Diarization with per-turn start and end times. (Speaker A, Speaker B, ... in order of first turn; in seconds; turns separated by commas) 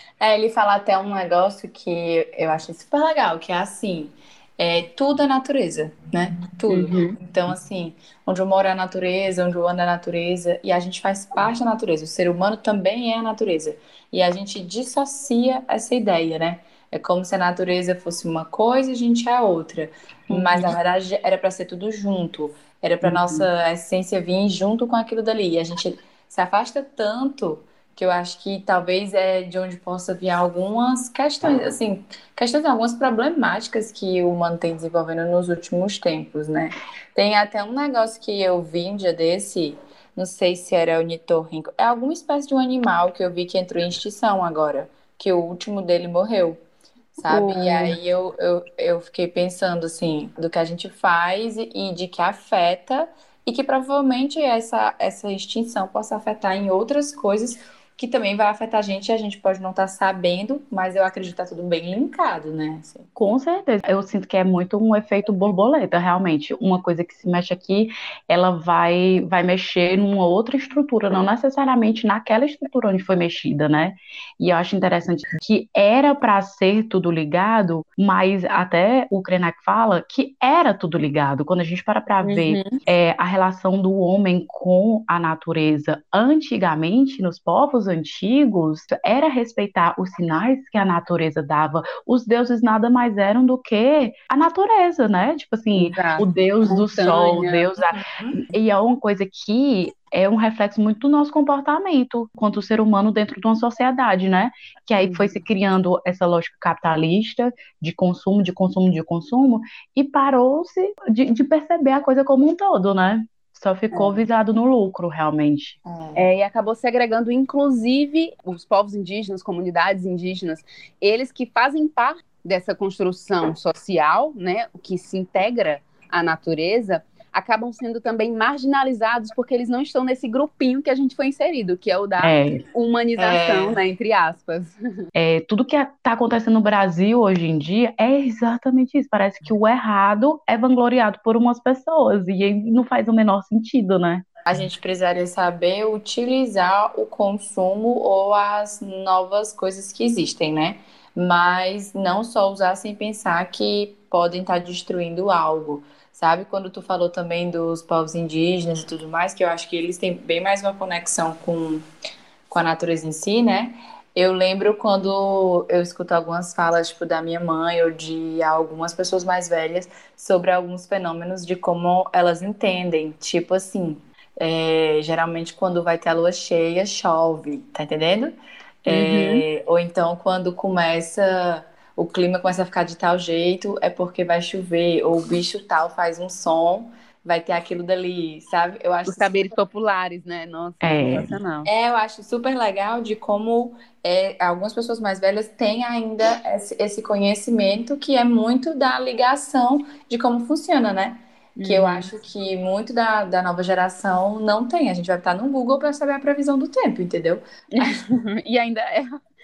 Speaker A: 0.2-46.6, Speaker B: 6.7-7.2, Speaker B: 20.3-20.7, Speaker B: 23.0-23.4, Speaker A: 47.2-63.1, Speaker B: 47.2-48.0, Speaker C: 63.1-115.8, Speaker B: 82.2-82.8, Speaker B: 95.7-97.7, Speaker A: 97.9-98.4, Speaker B: 105.0-105.4, Speaker B: 113.9-114.2, Speaker A: 115.8-116.2, Speaker B: 116.2-134.7, Speaker C: 132.2-132.6, Speaker A: 133.2-133.8, Speaker C: 135.1-144.2, Speaker A: 144.4-161.8, Speaker A: 162.5-178.3, Speaker A: 178.8-189.5, Speaker B: 178.9-179.4, Speaker B: 189.0-191.7, Speaker C: 190.8-191.3, Speaker A: 191.6-208.0, Speaker B: 201.6-202.1, Speaker B: 207.7-209.2